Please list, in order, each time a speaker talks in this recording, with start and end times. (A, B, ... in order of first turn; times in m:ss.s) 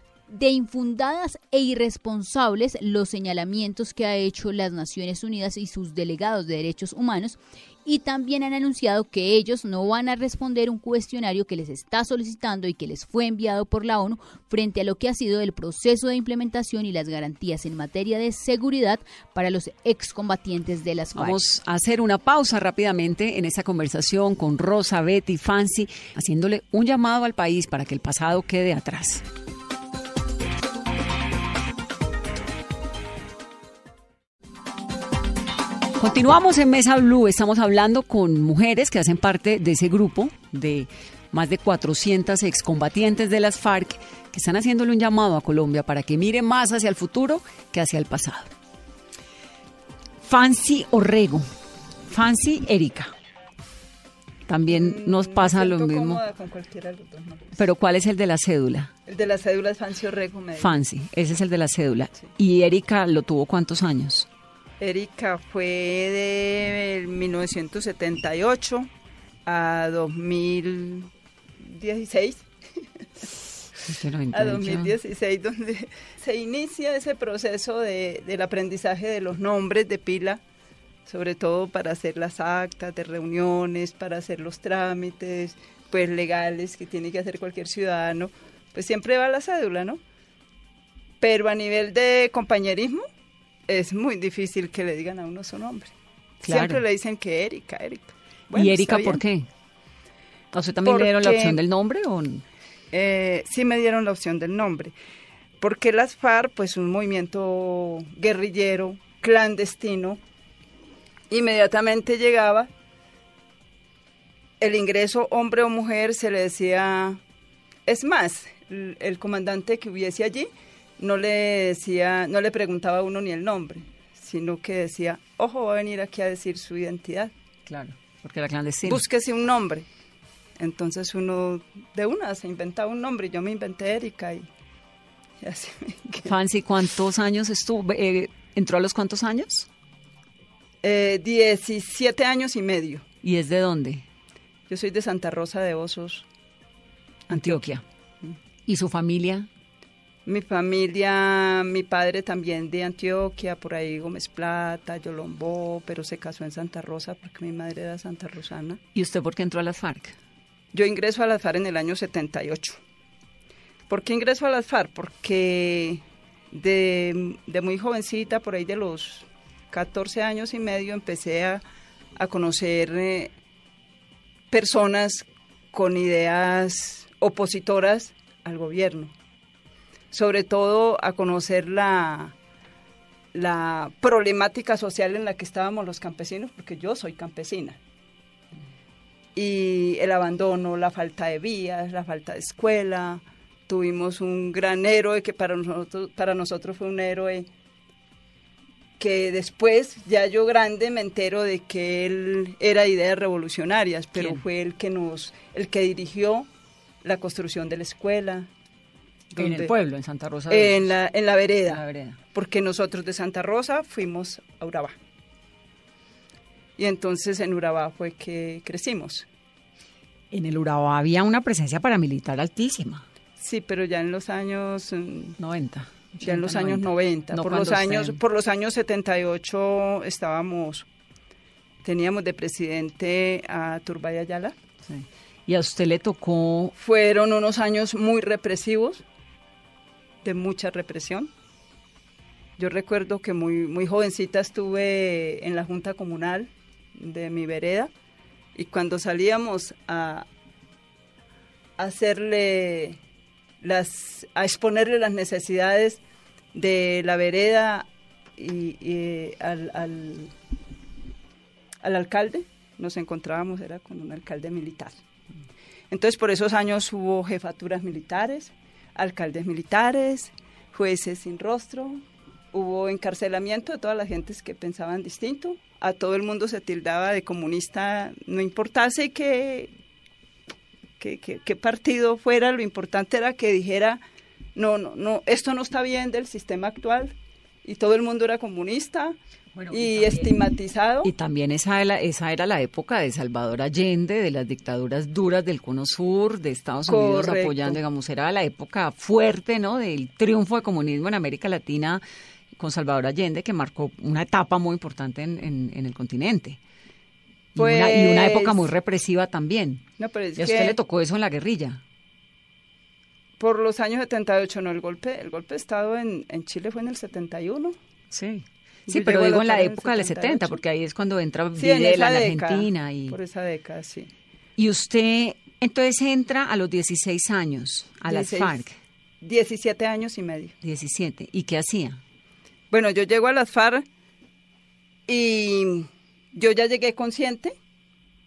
0:00.3-0:21.4 A
0:21.1-0:29.2 B
0:36.0-0:48.5 B
0:50.2-0:51.4 B
0:52.1-0:53.1 B
0:54.4-0:56.2 B
0:54.7-0:57.6 C
0:57.6-0:58.9 B
0:59.0-1:00.8 C
1:00.6-1:04.3 B
1:04.8-1:08.9 C
1:09.4-1:11.1 C
1:11.6-1:12.4 C
1:13.8-1:15.0 B
1:14.3-1:20.4 C
1:21.0-1:30.0 C
1:31.2-1:33.0 C
1:33.7-1:39.2 C
1:36.4-1:36.8 B
1:38.5-1:39.5 B
1:40.5-1:42.4 B
1:40.8-1:41.6 C
1:42.9-1:44.9 C
1:45.6-1:50.2 C
1:51.3-1:52.7 C
1:54.6-1:57.2 C
1:57.8-2:07.3 C
2:07.6-2:09.0 B
2:08.8-2:09.9 C
2:10.6-2:14.5 C
2:15.4-2:16.3 C
2:16.2-2:19.7 B
2:20.8-2:23.0 C
2:23.2-2:24.1 B
2:24.7-2:26.2 C
2:27.3-2:27.8 B
2:27.3-2:27.6 C
2:28.6-2:29.5 B
2:30.2-2:38.8 C
2:38.9-2:40.2 B
2:40.7-2:42.8 C
2:43.9-2:51.6 C
2:52.2-2:53.3 C
2:54.5-2:59.1 C
3:00.1-3:02.4 C
3:03.3-3:07.8 C
3:09.4-3:17.5 C
3:19.0-3:26.5 C
3:24.2-3:24.4 B
3:27.0-3:28.5 C
3:29.3-3:29.7 C
3:29.4-3:31.0 B
3:30.5-3:35.0 C
3:31.7-3:32.2 B
3:36.8-3:39.3 C
3:40.3-3:43.0 B
3:43.4-3:45.4 C
3:45.4-3:48.2 B
3:46.2-3:50.9 C
3:51.8-3:54.6 C
3:54.9-3:56.7 B
3:56.8-3:59.0 C
4:00.2-4:01.3 C
4:02.6-4:07.9 C
4:08.5-4:10.3 C
4:11.8-4:13.0 C
4:13.6-4:16.0 C
4:16.5-4:20.3 C
4:21.8-4:24.9 C
4:25.9-4:39.7 C
4:41.0-4:44.0 C
4:44.6-4:49.2 C
4:49.5-4:50.3 B
4:49.7-4:51.1 C
4:51.0-5:02.0 B
4:56.9-4:57.8 C
5:02.6-5:06.6 B
5:07.5-5:09.8 B
5:07.6-5:08.7 C
5:10.0-5:10.8 C
5:10.4-5:11.8 B
5:13.4-5:17.8 C
5:18.1-5:23.2 B
5:18.9-5:20.6 C
5:21.6-5:24.1 C
5:24.6-5:28.8 B
5:28.1-5:28.6 C
5:29.2-5:30.5 C
5:30.6-5:32.0 B
5:32.7-5:33.8 C
5:35.1-5:37.5 C